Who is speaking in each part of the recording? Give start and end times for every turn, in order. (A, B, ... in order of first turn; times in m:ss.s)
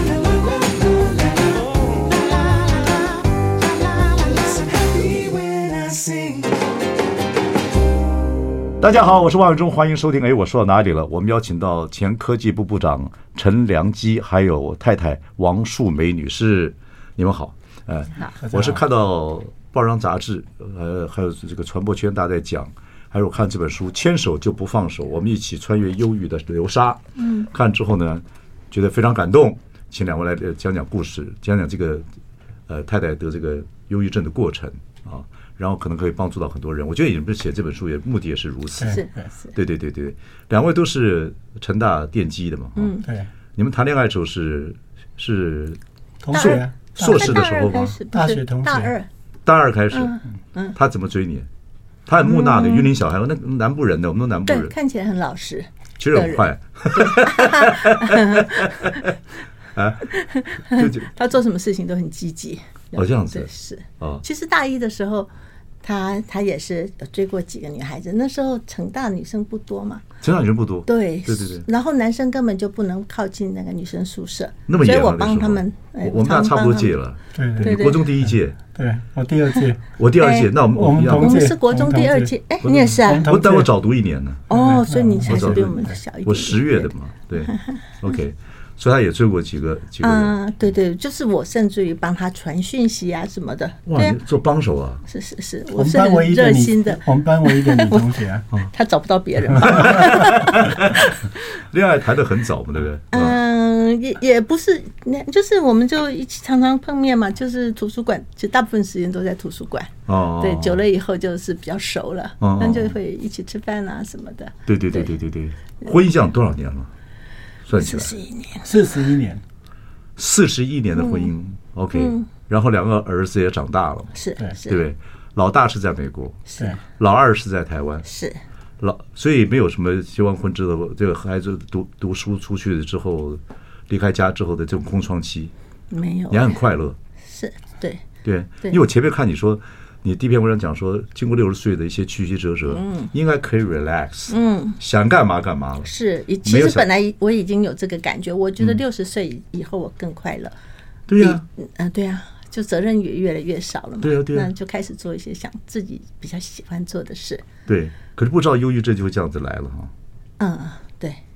0:05.9-0:06.3 A
0:08.8-0:32.1 A
0:18.4-0:18.8 B
0:27.2-0:27.5 C
0:32.7-0:39.0 A
0:38.8-0:39.3 B
0:39.5-0:43.0 A
0:42.8-0:43.1 C
0:43.0-0:43.3 B
0:43.6-0:45.8 A
0:46.2-0:47.4 B
0:46.3-0:49.1 C
0:46.4-0:48.0 A
0:48.1-0:48.9 B
0:49.4-0:50.2 A
0:49.9-0:50.8 C
0:50.7-0:51.5 A
0:52.1-0:54.7 A
0:52.2-0:52.9 C
0:54.5-0:59.2 C
0:56.0-0:59.2 A
0:59.7-1:00.2 A
1:00.1-1:05.3 C
1:00.7-1:01.1 A
1:03.0-1:04.2 A
1:05.8-1:10.0 C
1:10.2-1:11.7 A
1:10.9-1:16.9 C
1:14.7-1:18.6 A
1:17.3-1:19.8 B
1:17.6-1:18.1 C
1:20.0-1:21.5 A
1:20.2-1:23.4 C
1:20.7-1:23.7 B
1:22.6-1:24.5 A
1:24.5-1:27.9 C
1:24.5-1:26.0 B
1:25.3-1:30.4 A
1:30.0-1:34.2 C
1:33.9-1:35.0 A
1:35.1-1:41.2 C
1:35.8-1:38.5 B
1:39.6-1:43.4 A
1:43.1-1:55.2 C
1:50.1-1:50.8 A
1:52.4-1:53.0 A
1:54.7-1:56.9 A
1:57.7-1:58.1 A
1:57.7-1:58.7 C
1:58.6-1:59.4 B
2:00.2-2:08.1 A
2:00.9-2:01.3 C
2:01.9-2:02.3 C
2:04.1-2:04.8 C
2:08.0-2:08.4 C
2:08.8-2:15.5 A
2:15.9-2:16.6 C
2:16.3-2:17.0 A
2:17.3-2:18.0 C
2:18.2-2:25.9 A
2:22.7-2:23.1 C
2:24.3-2:24.8 C
2:25.8-2:30.6 C
2:26.4-2:26.9 A
2:31.1-2:31.4 A
2:31.2-2:37.5 C
2:34.0-2:34.5 A
2:37.7-2:39.9 A
2:40.4-2:41.2 C